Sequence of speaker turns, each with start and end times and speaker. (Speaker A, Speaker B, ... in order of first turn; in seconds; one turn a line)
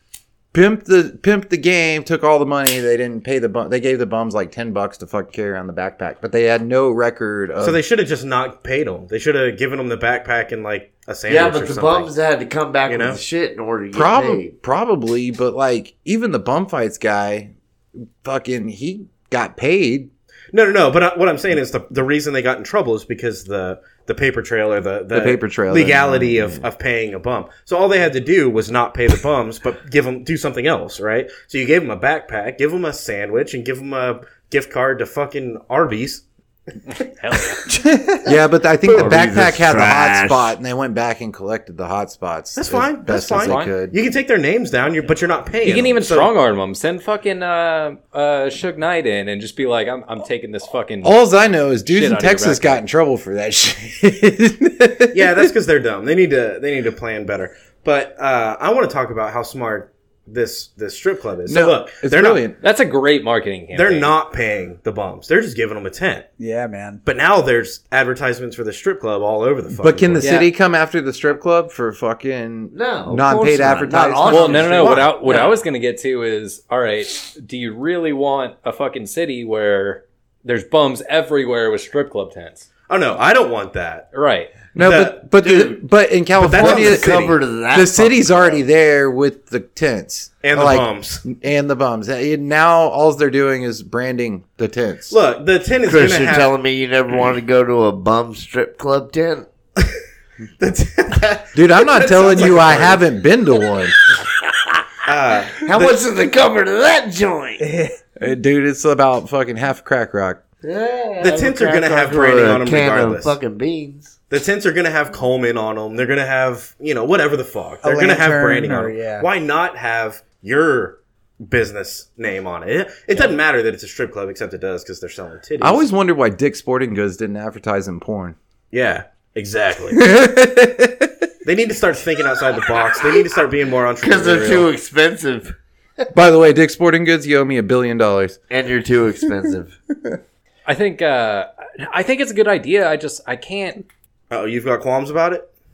Speaker A: 0.5-7.8
Speaker B: 7.6-12.1
Speaker C: 11.3-14.5
Speaker B: 12.8-13.2
Speaker A: 13.9-17.5
Speaker A: 18.2-20.1
Speaker B: 20.5-36.2
Speaker A: 25.1-26.5
Speaker D: 37.0-37.6
Speaker A: 38.2-44.0
Speaker C: 38.9-40.5
Speaker B: 42.5-46.3
Speaker D: 43.4-43.7
Speaker D: 45.6-51.2
Speaker A: 51.0-55.5
Speaker D: 51.8-52.8
Speaker B: 55.1-62.5
Speaker A: 61.5-62.5
Speaker D: 62.6-64.1
Speaker B: 63.7-66.3
Speaker E: 66.4-67.0
Speaker B: 67.0-70.3
Speaker A: 69.7-75.1
Speaker D: 70.2-70.5
Speaker C: 72.7-75.5
Speaker D: 74.2-82.7
Speaker B: 82.9-84.1
Speaker D: 84.1-84.5
Speaker A: 84.7-95.1
Speaker B: 84.8-85.6
Speaker C: 85.4-85.8
Speaker B: 86.3-87.3
Speaker C: 86.5-88.6
Speaker B: 90.4-91.2
Speaker B: 95.1-96.5
Speaker C: 95.9-99.5
Speaker B: 100.6-103.0
Speaker A: 101.5-104.0
Speaker B: 105.0-106.0
Speaker C: 105.6-107.6
Speaker E: 107.6-108.0
Speaker A: 108.2-110.4
Speaker C: 110.6-114.2
Speaker B: 111.2-113.3
Speaker B: 114.3-125.8
Speaker E: 117.8-119.3
Speaker A: 125.6-128.3
Speaker B: 128.7-130.0
Speaker A: 129.9-131.3
Speaker B: 131.4-134.7
Speaker C: 134.0-136.1
Speaker A: 136.1-138.4
Speaker C: 138.5-139.8
Speaker D: 140.7-143.8
Speaker B: 144.3-145.5